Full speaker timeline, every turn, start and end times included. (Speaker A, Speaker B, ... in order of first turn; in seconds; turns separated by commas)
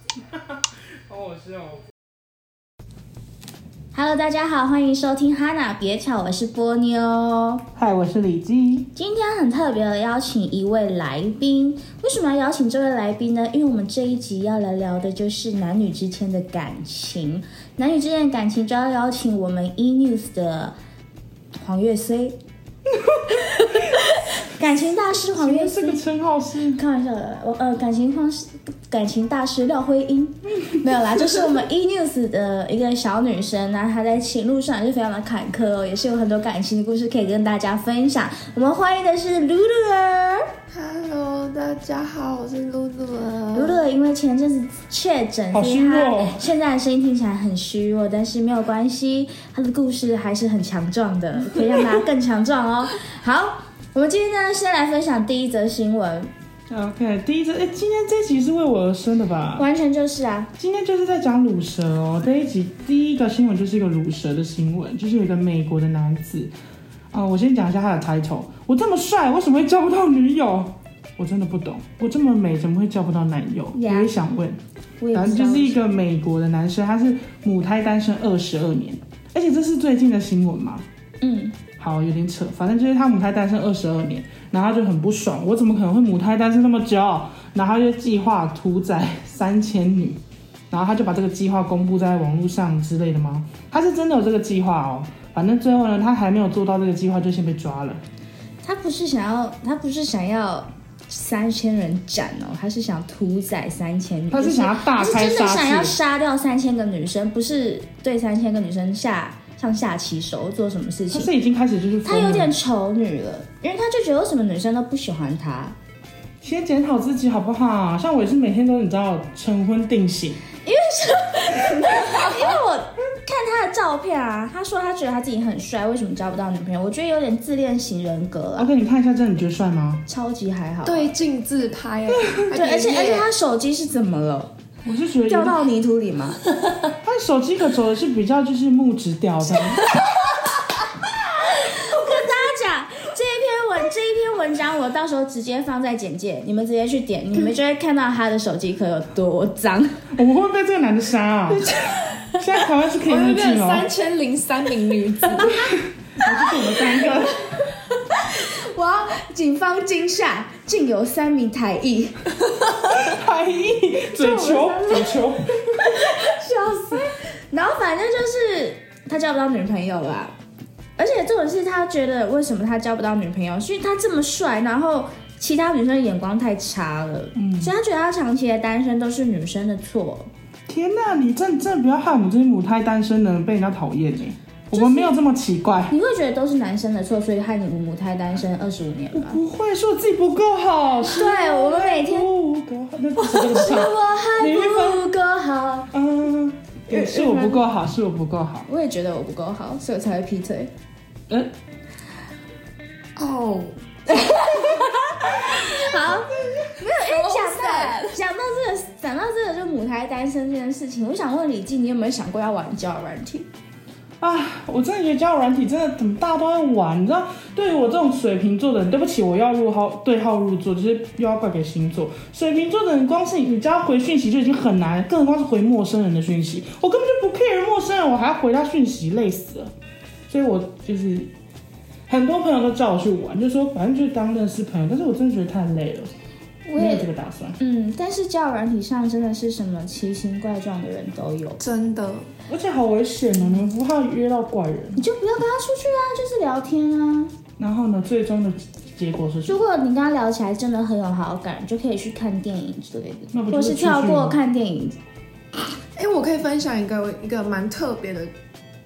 Speaker A: 0.2-1.9, Speaker B: 3.9-7.6, Speaker A: 7.8-8.9, Speaker B: 9.0-20.8, Speaker B: 21.5-22.4, Speaker A: 22.9-23.6, Speaker B: 23.3-26.0, Speaker A: 24.6-26.8, Speaker B: 26.7-40.5, Speaker C: 40.7-43.8, Speaker B: 43.5-56.3, Speaker A: 45.5-46.4, Speaker A: 56.7-59.7, Speaker B: 59.6-60.5, Speaker A: 60.6-66.5, Speaker A: 67.1-74.6, Speaker B: 73.7-74.1, Speaker B: 75.0-75.8, Speaker A: 75.1-80.9, Speaker B: 81.2-81.6, Speaker A: 81.8-98.0, Speaker B: 98.6-111.3, Speaker A: 104.3-106.0, Speaker A: 111.1-112.5, Speaker B: 112.0-115.8, Speaker A: 116.4-120.4, Speaker B: 120.6-128.7, Speaker A: 128.6-130.0, Speaker B: 130.1-131.1, Speaker C: 130.8-133.3, Speaker A: 132.2-132.4, Speaker B: 132.5-134.5, Speaker A: 134.9-135.6, Speaker B: 135.3-136.4, Speaker A: 137.0-139.9, Speaker B: 141.1-150.0, Speaker A: 150.1-153.9, Speaker C: 153.0-155.7, Speaker A: 155.6-157.5, Speaker B: 156.2-162.2, Speaker A: 162.9-166.1, Speaker B: 164.1-165.2, Speaker B: 165.7-170.3, Speaker B: 171.0-180.3, Speaker A: 177.3-177.7, Speaker A: 180.7-185.9, Speaker B: 184.7-185.2, Speaker B: 185.9-189.4, Speaker A: 189.1-195.1, Speaker B: 191.0-192.3, Speaker B: 193.2-195.9, Speaker A: 195.9-198.7, Speaker B: 196.9-197.7, Speaker B: 198.7-200.7, Speaker C: 203.2-203.8, Speaker B: 204.1-213.5, Speaker A: 204.3-204.6, Speaker C: 206.9-208.2, Speaker A: 214.2-229.7, Speaker A: 230.3-231.3, Speaker A: 232.1-236.1, Speaker B: 236.7-241.6, Speaker A: 236.8-237.6, Speaker C: 241.6-242.3, Speaker A: 242.5-245.0, Speaker B: 245.0-247.3, Speaker A: 247.6-249.6, Speaker B: 249.5-255.0, Speaker A: 253.3-254.4, Speaker C: 255.9-258.3